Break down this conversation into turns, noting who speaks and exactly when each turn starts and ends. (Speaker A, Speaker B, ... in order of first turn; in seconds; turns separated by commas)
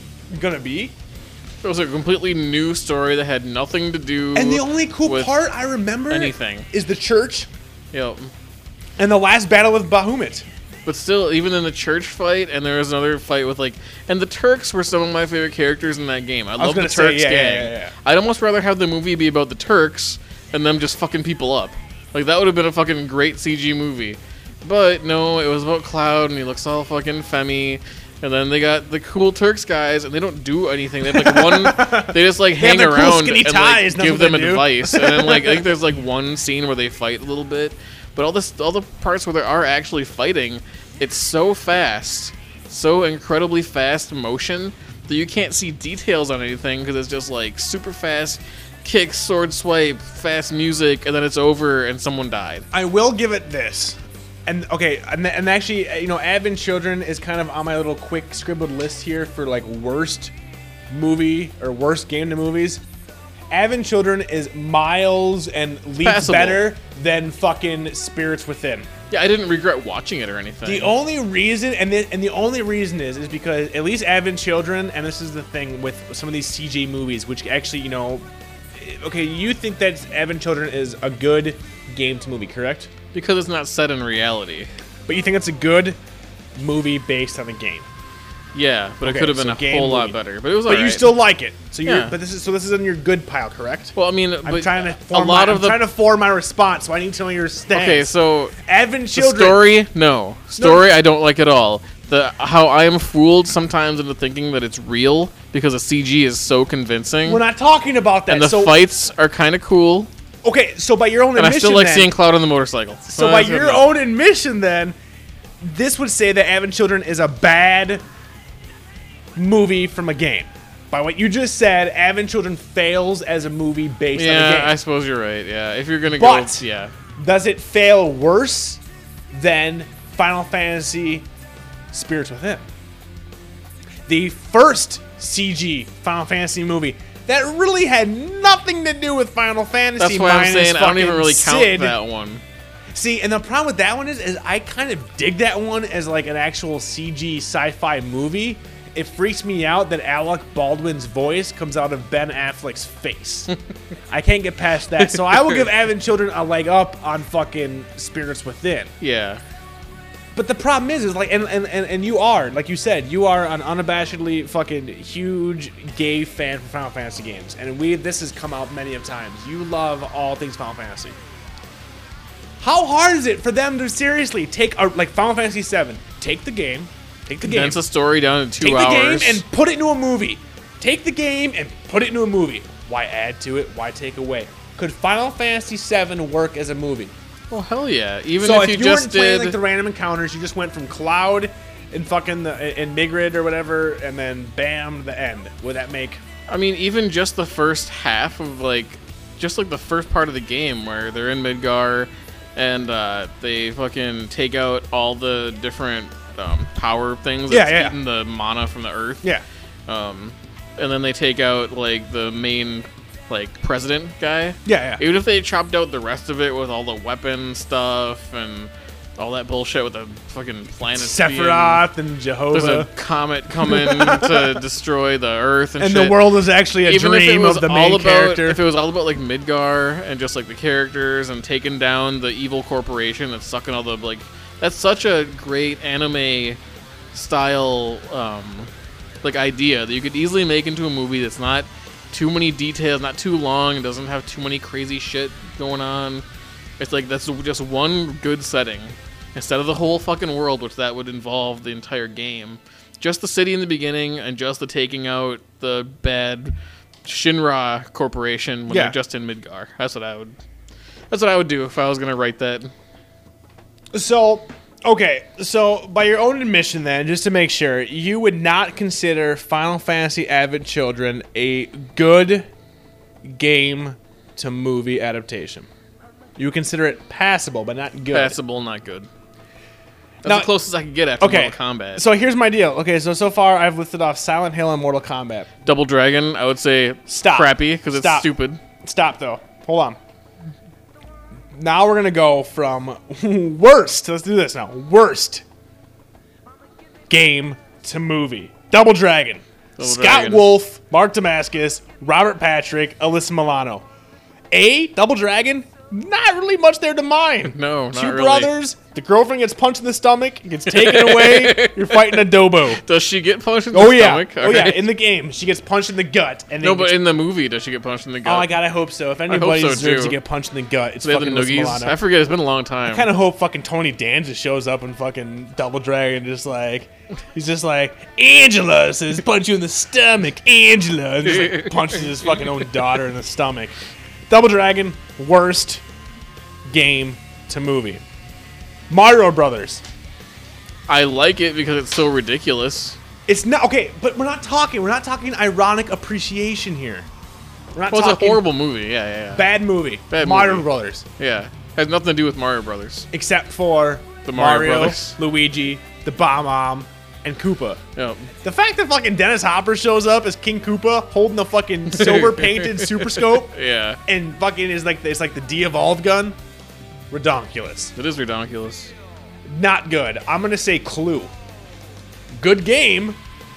Speaker A: 0.3-0.9, Speaker B: 1.6-5.3, Speaker A: 4.3-7.5, Speaker B: 6.1-6.7, Speaker B: 7.9-8.3, Speaker A: 9.0-10.4, Speaker B: 10.8-52.7, Speaker A: 16.6-17.9, Speaker A: 31.1-35.7, Speaker A: 52.7-60.3, Speaker A: 60.9-62.8, Speaker A: 63.5-68.9, Speaker B: 66.0-66.7, Speaker B: 69.1-70.9, Speaker A: 70.6-82.9, Speaker B: 83.1-84.7, Speaker A: 85.1-86.0, Speaker A: 86.5-87.8, Speaker B: 88.5-91.2, Speaker A: 89.0-98.1, Speaker B: 91.8-92.2, Speaker B: 94.0-95.8, Speaker B: 97.7-98.5, Speaker A: 98.6-99.6, Speaker B: 99.1-107.4, Speaker A: 100.5-100.8, Speaker A: 107.2-108.8, Speaker B: 108.3-110.1, Speaker A: 110.4-112.1, Speaker B: 111.3-113.9, Speaker A: 113.1-114.9, Speaker A: 115.6-118.0, Speaker A: 119.3-124.7, Speaker B: 124.1-126.9, Speaker A: 126.1-126.6, Speaker A: 127.2-128.8, Speaker A: 129.3-131.3, Speaker A: 131.9-132.7, Speaker A: 134.1-141.9, Speaker B: 140.0-142.4, Speaker A: 142.9-153.5, Speaker A: 154.1-158.9, Speaker B: 155.0-155.7, Speaker B: 159.0-159.4, Speaker A: 160.3-171.2, Speaker A: 172.6-177.8, Speaker B: 177.4-179.4, Speaker A: 178.6-187.1, Speaker B: 187.5-189.6, Speaker A: 188.4-196.2, Speaker B: 196.5-209.2, Speaker A: 207.5-207.9, Speaker B: 209.9-221.9, Speaker A: 214.6-215.0, Speaker A: 220.9-222.9, Speaker B: 222.5-236.6, Speaker A: 223.6-224.6, Speaker A: 225.8-228.6, Speaker B: 237.1-238.7, Speaker B: 239.2-246.2, Speaker B: 246.8-260.3, Speaker A: 258.7-258.9, Speaker B: 261.1-262.7, Speaker A: 263.9-272.5, Speaker A: 273.2-275.7, Speaker A: 276.4-278.4, Speaker B: 278.1-279.1, Speaker A: 280.2-280.5, Speaker B: 280.2-282.1, Speaker A: 281.2-285.5, Speaker B: 285.6-288.6, Speaker A: 287.1-288.3, Speaker A: 288.8-290.0, Speaker A: 291.5-295.4, Speaker A: 297.1-303.8, Speaker B: 299.8-300.6, Speaker A: 304.5-312.8, Speaker B: 307.4-308.5, Speaker B: 310.6-314.9, Speaker A: 313.7-317.0, Speaker B: 316.6-318.5, Speaker A: 318.2-322.0, Speaker B: 319.3-320.2, Speaker B: 321.0-323.1, Speaker A: 322.9-333.8, Speaker B: 331.3-332.2, Speaker A: 334.3-335.8, Speaker A: 336.6-338.0, Speaker A: 338.9-339.8, Speaker B: 340.9-343.0, Speaker A: 343.3-347.1, Speaker A: 347.7-348.4, Speaker B: 347.9-349.5, Speaker A: 349.3-351.0, Speaker B: 350.1-350.7, Speaker B: 351.2-353.1, Speaker A: 353.1-357.8, Speaker B: 354.2-355.2, Speaker B: 357.9-358.3, Speaker A: 358.4-366.4, Speaker B: 361.9-364.0, Speaker A: 367.1-367.9, Speaker B: 367.9-368.9, Speaker A: 369.5-371.3, Speaker A: 372.4-373.2